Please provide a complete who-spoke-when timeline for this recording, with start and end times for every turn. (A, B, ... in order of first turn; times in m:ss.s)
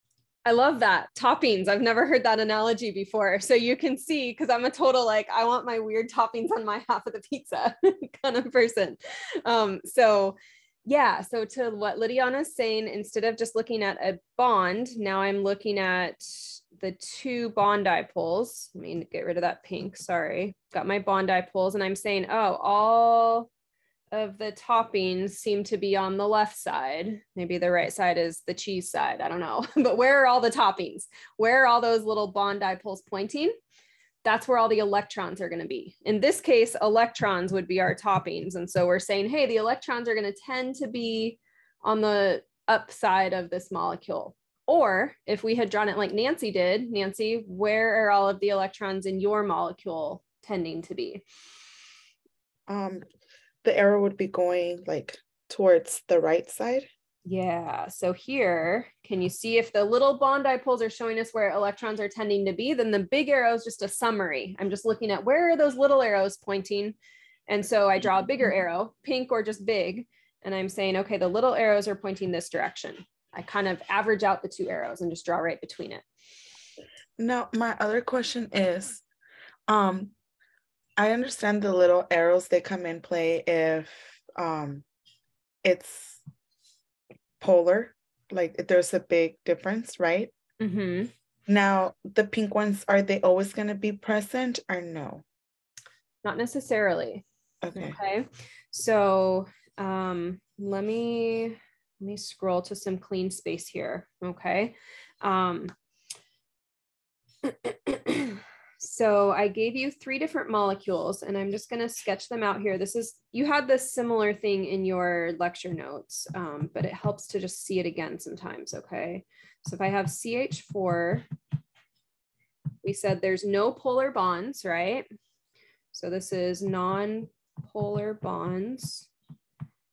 0:00.4-0:23.5 A
0:24.1-0:33.6 A
0:34.2-0:51.2 A
0:52.7-0:53.0 B
0:53.6-0:56.9 B
0:57.3-1:07.0 A
1:07.5-1:16.0 A
1:17.2-1:19.0 B
1:19.7-1:20.1 B
1:21.0-1:24.8 B
1:25.6-1:26.2 B
1:27.4-1:30.3 B
1:30.6-1:31.1 A
1:31.5-1:35.2 B
1:36.2-1:37.2 A
1:37.6-1:38.0 B
1:37.8-1:45.7 A
1:47.4-2:01.3 A
2:02.8-2:05.1 A
2:05.9-2:09.1 A